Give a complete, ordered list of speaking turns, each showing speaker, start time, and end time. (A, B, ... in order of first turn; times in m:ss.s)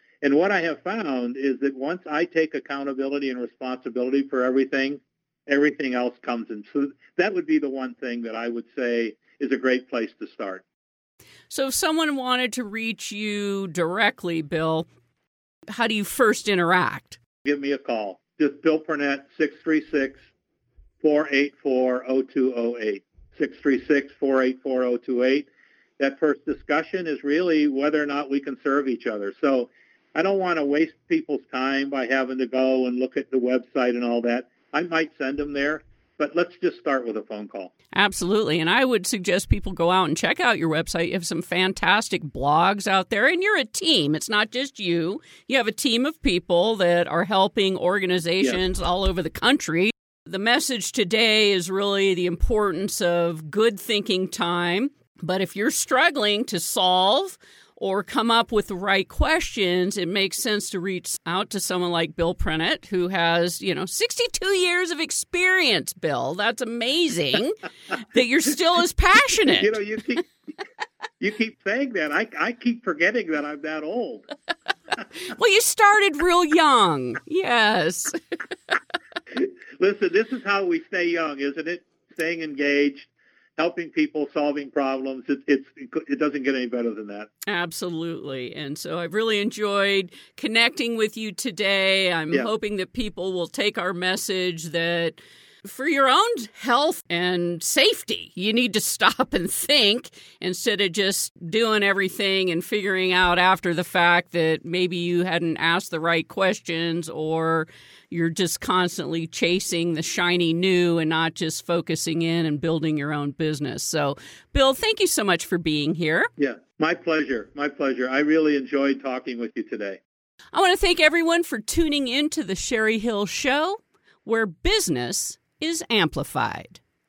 0:00.2-0:10.6 A
0:11.5-0:14.9 B
0:15.7-0:17.2 B
0:17.4-0:20.2 A
0:21.0-0:25.5 A
0:26.0-0:37.7 A
0:37.9-1:09.8 B
1:09.6-1:10.3 A
1:11.2-1:14.2 A
1:15.2-1:18.2 B
1:19.4-1:27.3 A
1:27.4-1:56.3 B
1:56.4-2:00.0 A
2:00.5-2:06.8 B